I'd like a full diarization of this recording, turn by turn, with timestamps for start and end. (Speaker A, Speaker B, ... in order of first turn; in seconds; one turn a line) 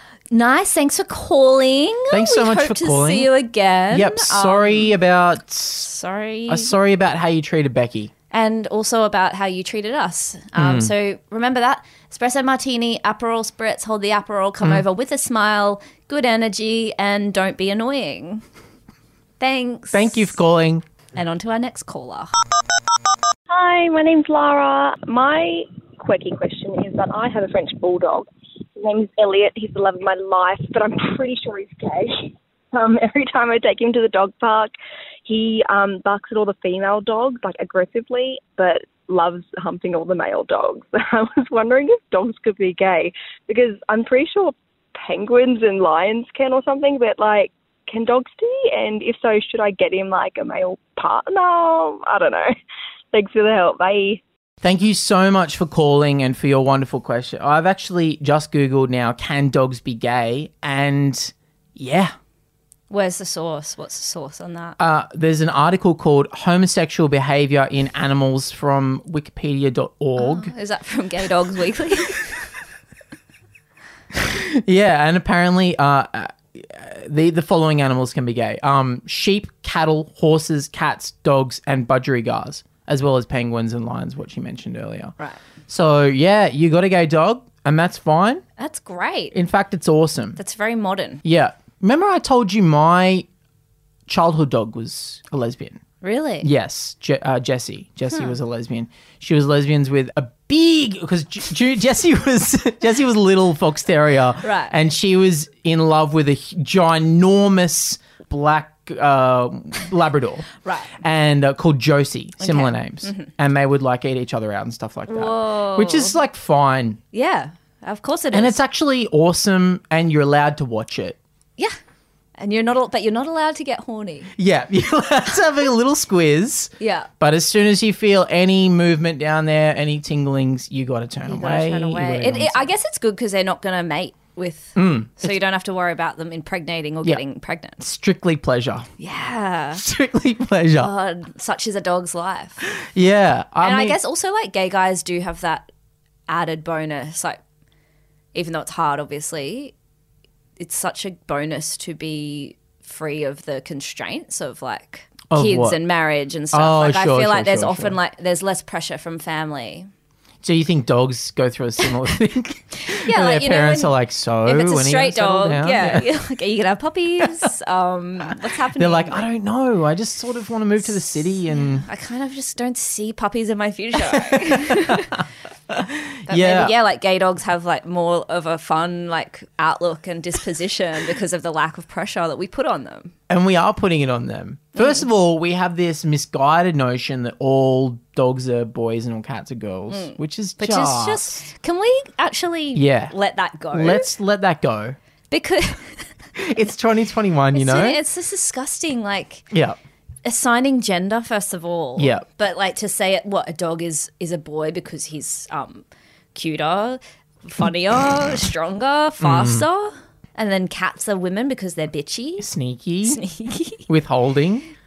Speaker A: 0.3-4.9
Speaker B: 2.1-3.3
Speaker B: 3.9-5.9
Speaker A: 5.8-6.7
Speaker B: 6.5-8.1
Speaker A: 8.3-18.4
Speaker B: 10.6-10.9
Speaker A: 19.4-20.4
Speaker B: 19.9-20.8
Speaker A: 21.1-22.3
Speaker C: 23.5-34.7
Speaker C: 35.2-52.5
Speaker C: 53.1-54.2
Speaker B: 54.6-62.1
Speaker A: 62.9-64.8
Speaker B: 64.8-70.5
Speaker A: 70.2-72.5
Speaker B: 74.1-85.1
Speaker B: 85.7-88.4
Speaker A: 88.6-89.3
Speaker B: 89.3-90.4
Speaker A: 90.3-91.2
Speaker B: 91.2-93.3
Speaker B: 94.1-95.8
Speaker A: 96.0-96.5
Speaker B: 96.4-110.5
Speaker A: 104.4-104.7
Speaker A: 110.6-110.9
Speaker B: 111.0-117.0
Speaker A: 112.4-113.3
Speaker A: 115.1-116.2
Speaker A: 117.1-118.6
Speaker B: 118.3-121.2
Speaker A: 122.4-124.3
Speaker B: 124.3-132.7
Speaker A: 126.8-127.1
Speaker A: 131.3-137.8
Speaker B: 134.8-135.4
Speaker B: 137.8-138.9
Speaker A: 139.0-139.8
Speaker B: 139.8-140.9
Speaker A: 140.8-142.7
Speaker B: 142.7-144.0
Speaker A: 143.6-145.7
Speaker A: 146.3-147.4
Speaker A: 148.3-149.7
Speaker A: 150.6-159.9
Speaker B: 155.3-155.8
Speaker B: 156.5-158.0
Speaker B: 160.4-166.1
Speaker A: 162.8-169.3
Speaker B: 168.7-171.8
Speaker A: 171.5-175.2
Speaker B: 174.0-176.7
Speaker A: 176.3-183.1
Speaker B: 183.3-191.4
Speaker A: 184.8-185.0
Speaker A: 189.9-194.1
Speaker B: 192.7-193.1
Speaker B: 193.7-195.0
Speaker A: 195.3-196.1
Speaker B: 196.3-198.0
Speaker A: 197.5-199.4
Speaker B: 199.5-199.8
Speaker A: 200.2-212.5
Speaker B: 202.0-202.2
Speaker B: 209.2-209.7
Speaker B: 212.4-213.2
Speaker A: 213.1-213.8
Speaker B: 213.9-214.7